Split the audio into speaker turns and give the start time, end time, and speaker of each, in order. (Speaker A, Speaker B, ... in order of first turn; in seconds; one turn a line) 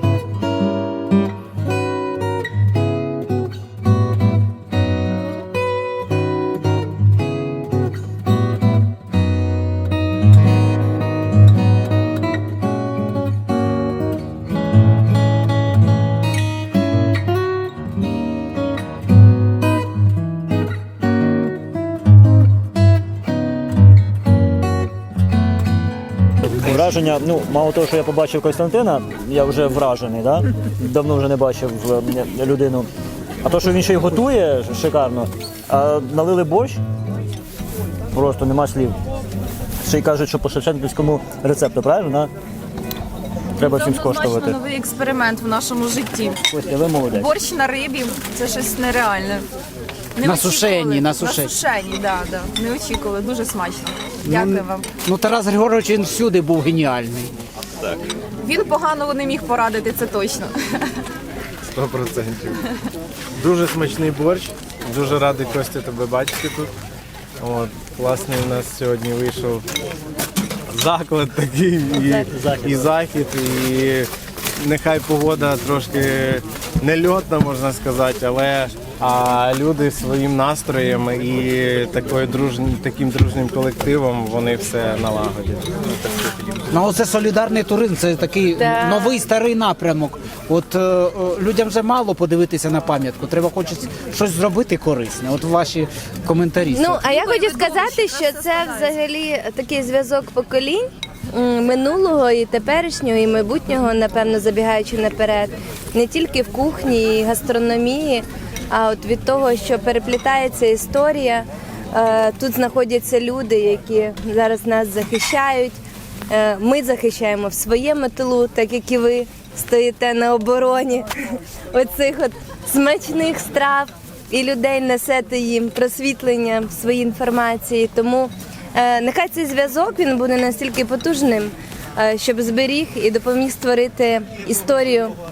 Speaker A: 26.5-32.9
Speaker A: 33.4-36.8
Speaker A: 38.1-39.0
Speaker A: 39.8-42.3
Speaker A: 43.6-44.6
Speaker B: 43.6-46.4
Speaker A: 46.5-47.4
Speaker B: 47.1-49.5
Speaker B: 50.2-54.9
Speaker C: 50.2-51.6
Speaker C: 54.2-57.3
Speaker B: 58.4-60.8
Speaker D: 61.7-62.6
Speaker D: 63.4-66.7
Speaker D: 67.4-69.6
Speaker D: 70.7-86.7
Speaker C: 86.7-97.1
Speaker E: 88.6-89.1
Speaker E: 96.7-115.8
Speaker B: 97.1-98.9
Speaker E: 116.3-121.1
Speaker E: 121.7-135.2